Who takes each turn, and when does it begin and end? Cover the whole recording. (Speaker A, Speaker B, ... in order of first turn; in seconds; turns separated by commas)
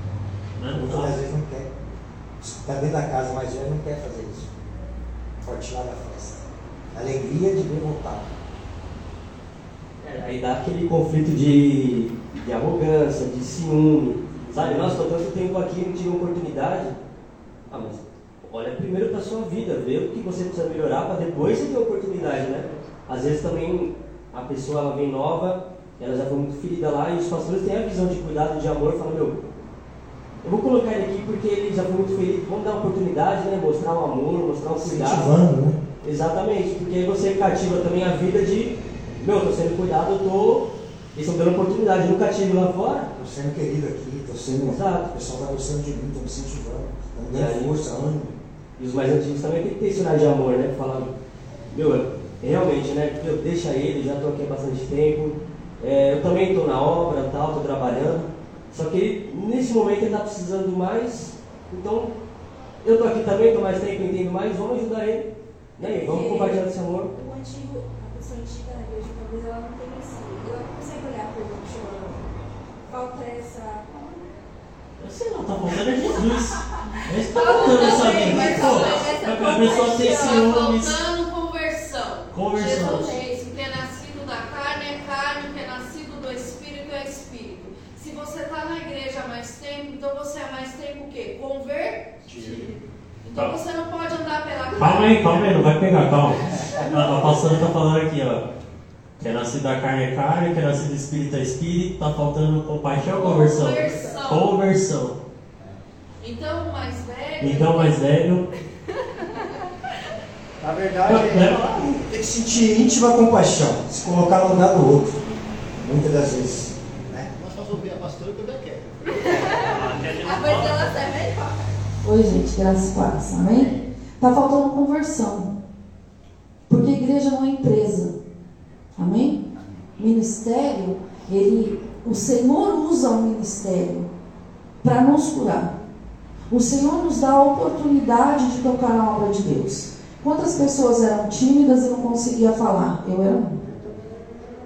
Speaker A: 0.6-1.2, Speaker B: 0.7-1.7, Speaker B: 2.4-4.5, Speaker B: 5.4-8.3, Speaker C: 10.0-16.9, Speaker A: 14.4-15.0, Speaker C: 17.7-29.4, Speaker C: 30.4-35.3, Speaker B: 34.8-35.8, Speaker C: 36.0-43.1, Speaker B: 43.1-48.4, Speaker C: 44.6-45.1, Speaker C: 47.3-47.8, Speaker C: 48.8-51.1, Speaker C: 51.7-62.1, Speaker C: 62.8-67.1, Speaker D: 65.8-72.3, Speaker D: 72.9-74.2, Speaker A: 75.0-81.0, Speaker D: 76.1-76.6, Speaker E: 77.3-95.6, Speaker D: 77.3-80.4, Speaker A: 82.3-83.1, Speaker D: 82.7-83.4, Speaker B: 92.2-92.6, Speaker A: 94.8-98.4, Speaker E: 96.5-97.7, Speaker A: 99.2-105.2, Speaker E: 103.0-104.5, Speaker D: 103.7-104.2, Speaker E: 106.2-108.0, Speaker A: 107.4-108.5, Speaker B: 110.6-115.2, Speaker A: 111.1-112.0, Speaker B: 115.8-117.3, Speaker F: 117.3-119.2, Speaker E: 119.2-121.5, Speaker D: 119.3-119.6, Speaker A: 119.5-121.0, Speaker D: 120.3-121.2, Speaker G: 122.0-125.5, Speaker G: 126.7-128.1, Speaker G: 128.9-129.4, Speaker G: 130.0-134.1, Speaker G: 134.8-135.7, Speaker G: 136.5-143.6, Speaker F: 143.6-144.0